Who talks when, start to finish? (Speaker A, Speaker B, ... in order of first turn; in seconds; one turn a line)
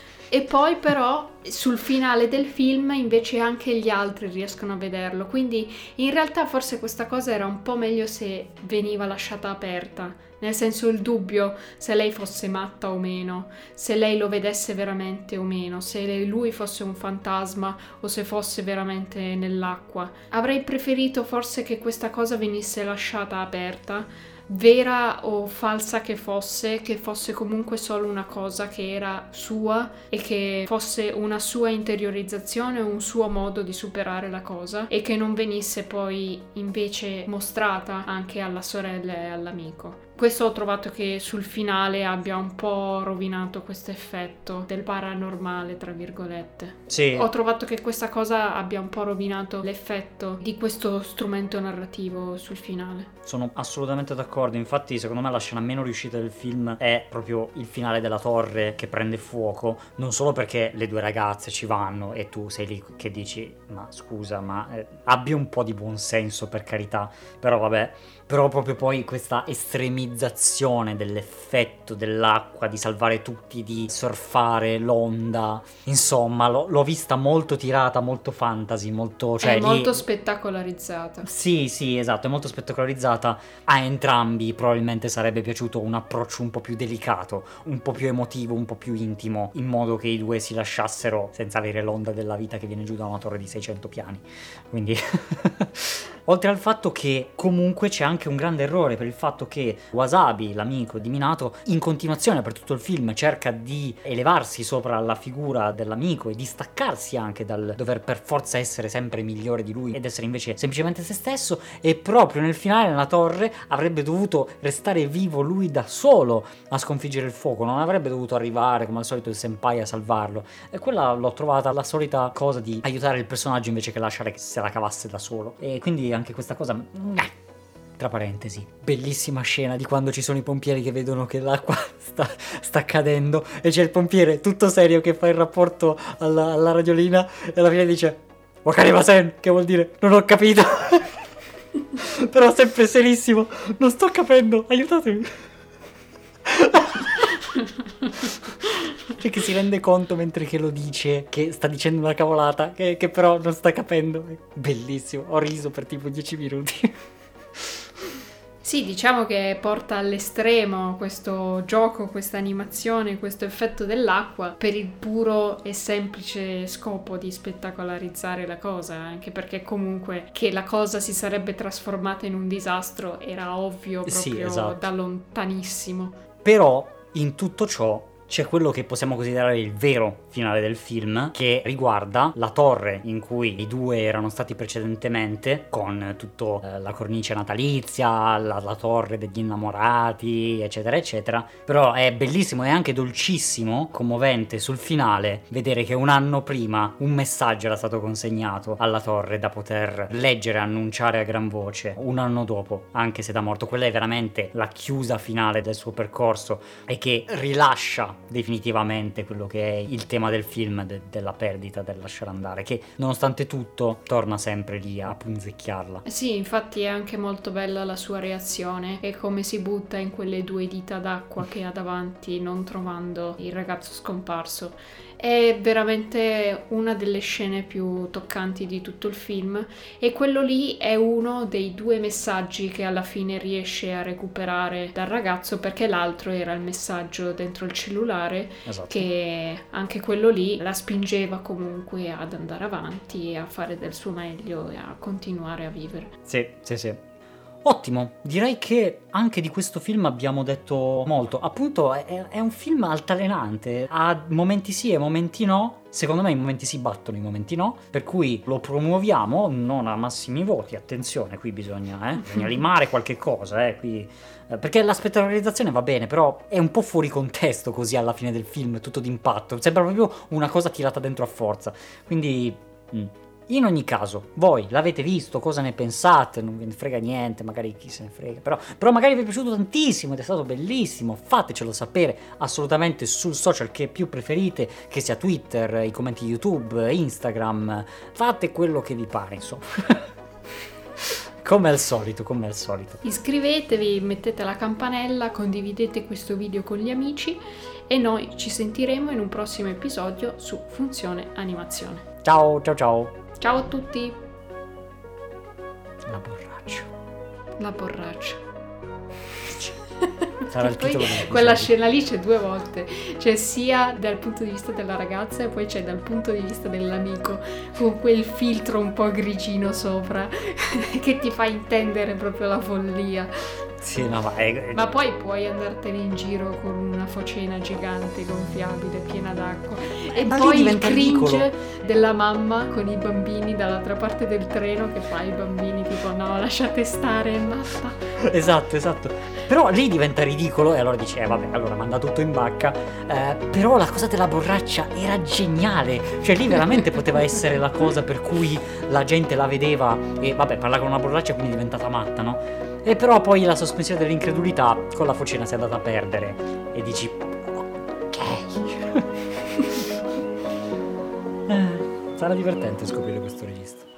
Speaker A: 0.3-53.1
Speaker B: 46.9-47.3
Speaker B: 53.2-80.0
Speaker A: 79.4-81.3
Speaker B: 81.2-127.3
Speaker B: 128.0-141.2
Speaker B: 142.0-145.4
Speaker B: 146.5-147.3
Speaker B: 149.1-156.9
Speaker A: 158.6-176.2
Speaker B: 174.1-174.9
Speaker B: 176.4-216.0
Speaker A: 216.1-246.1
Speaker B: 238.7-239.1
Speaker B: 246.3-247.0
Speaker B: 247.6-290.1
Speaker B: 291.4-293.0
Speaker A: 293.0-302.1
Speaker B: 302.2-303.2
Speaker A: 303.4-304.2
Speaker B: 306.1-306.9
Speaker A: 307.6-308.4
Speaker A: 309.6-323.6
Speaker B: 310.5-311.7
Speaker B: 323.8-324.8
Speaker A: 324.7-338.0
Speaker B: 330.0-331.5
Speaker B: 338.2-359.9
Speaker B: 361.5-363.9